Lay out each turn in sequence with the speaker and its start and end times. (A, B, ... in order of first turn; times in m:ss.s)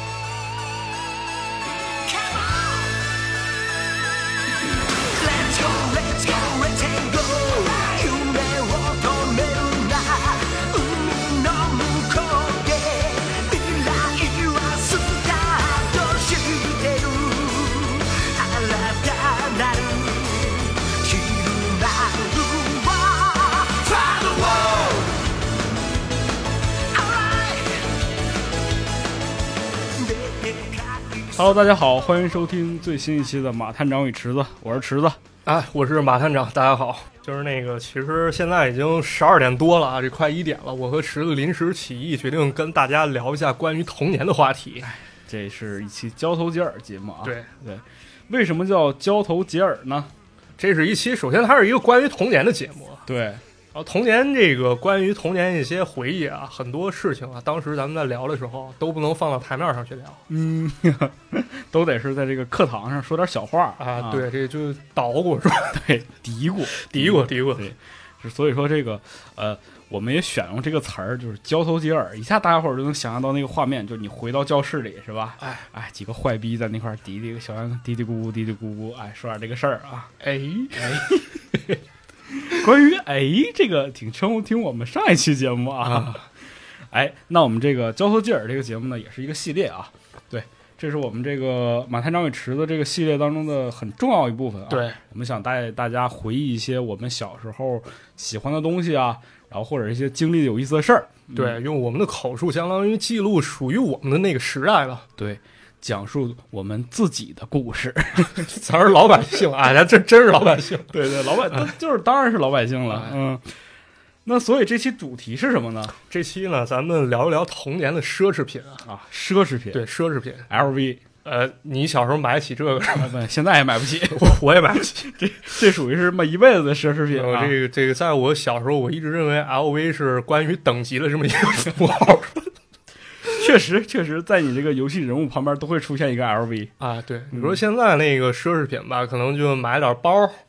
0:02.0-0:03.0 A
0:05.0-0:25.3 A
0:26.8-0:27.9 A
0:29.9-0:31.4 A
0:31.3-0:35.2 B
0:35.4-0:44.9 C
0:44.8-0:50.1 B
0:50.6-0:53.0 C
0:53.1-0:53.4 B
0:53.7-1:00.2 C
1:00.3-1:04.2 B
1:03.8-1:05.8 C
1:05.7-1:20.1 B
1:06.7-1:07.7 C
1:20.2-1:21.8 C
1:20.8-1:21.4 B
1:22.3-1:26.3 B
1:25.8-1:26.2 C
1:26.9-1:41.6 B
1:34.7-1:35.0 C
1:41.3-1:45.0 C
1:45.2-1:48.5 B
1:48.3-1:51.0 C
1:50.9-1:53.5 B
1:54.2-1:56.0 B
1:56.1-1:58.8 C
1:58.8-1:59.8 B
1:59.7-2:00.5 C
2:00.5-2:01.0 B
2:01.2-2:03.2 C
2:03.0-2:04.3 B
2:04.1-2:05.1 C
2:05.0-2:07.5 B
2:07.1-2:12.5 C
2:13.3-2:16.7 B
2:16.8-2:20.4 C